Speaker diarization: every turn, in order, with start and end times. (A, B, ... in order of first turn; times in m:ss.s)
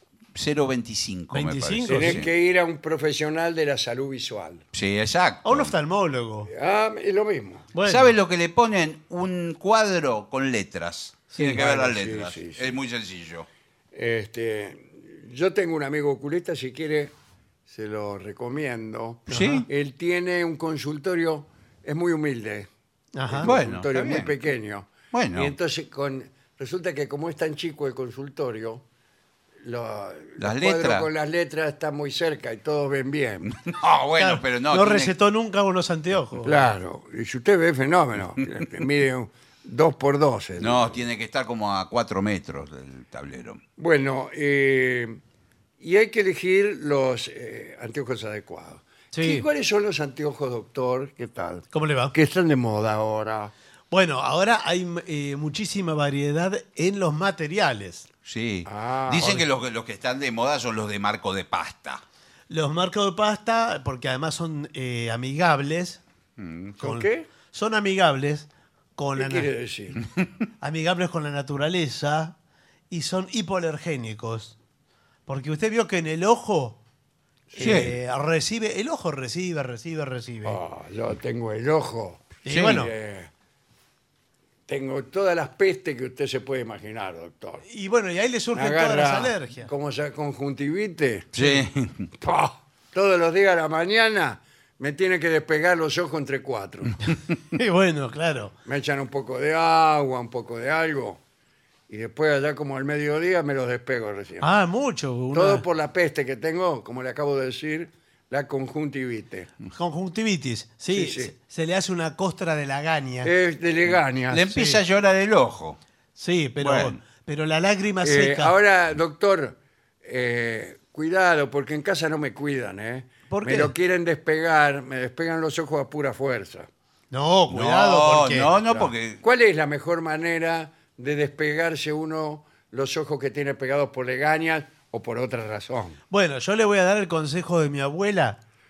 0:00.3-0:02.3 A
0:01.3-0:02.2 B
0:01.9-0:04.6 C
0:04.7-0:05.7 A
0:05.4-0:06.5 B
0:06.5-0:07.7 C
0:07.7-0:08.1 B
0:07.8-0:13.5 A
0:11.3-0:11.6 B
0:11.4-0:12.8 C
0:13.9-0:17.1 C
0:17.7-0:22.7 C
0:19.3-0:19.6 B
0:19.3-0:19.6 A
0:23.2-0:23.5 B
0:23.3-0:28.8 C
0:23.4-0:24.3 A
0:25.1-0:25.5 A
0:29.6-0:33.5 C
0:30.4-0:31.1 A
0:33.5-0:35.1 A
0:34.2-0:36.7 B
0:36.4-0:41.0 C
0:40.6-0:43.6 A
0:43.8-0:45.2 C
0:45.8-0:53.5 C
0:49.1-0:49.4 B
0:51.7-0:52.1 B
0:53.9-0:58.0 B
0:58.2-1:02.0 A
0:58.6-0:59.4 C
1:02.5-1:06.0 B
1:06.4-1:06.8 A
1:06.8-1:07.3 C
1:06.8-1:09.5 B
1:09.2-1:10.0 C
1:10.6-1:12.3 B
1:12.9-1:14.6 B
1:15.3-1:16.8 B
1:17.5-1:17.8 C
1:17.6-1:20.6 B
1:17.6-1:18.0 A
1:20.4-1:23.3 C
1:22.4-1:22.9 B
1:22.5-1:22.8 A
1:24.7-1:27.6 C
1:27.6-1:29.7 B
1:28.5-1:31.4 C
1:31.3-1:32.1 A
1:32.2-1:37.0 C
1:37.5-1:38.5 B
1:38.6-1:41.2 C
1:41.9-1:44.5 C
1:44.4-1:45.6 B
1:45.3-1:49.5 C
1:49.7-1:53.3 B
1:50.9-1:51.3 C
1:53.2-1:54.6 C
1:54.3-1:55.8 A
1:54.5-1:54.8 B
1:56.2-1:58.5 B
1:56.6-1:57.0 A
1:58.0-2:06.7 C
2:03.3-2:03.7 B
2:07.1-2:08.5 B
2:07.5-2:09.2 A
2:08.7-2:16.0 C
2:16.1-2:18.4 B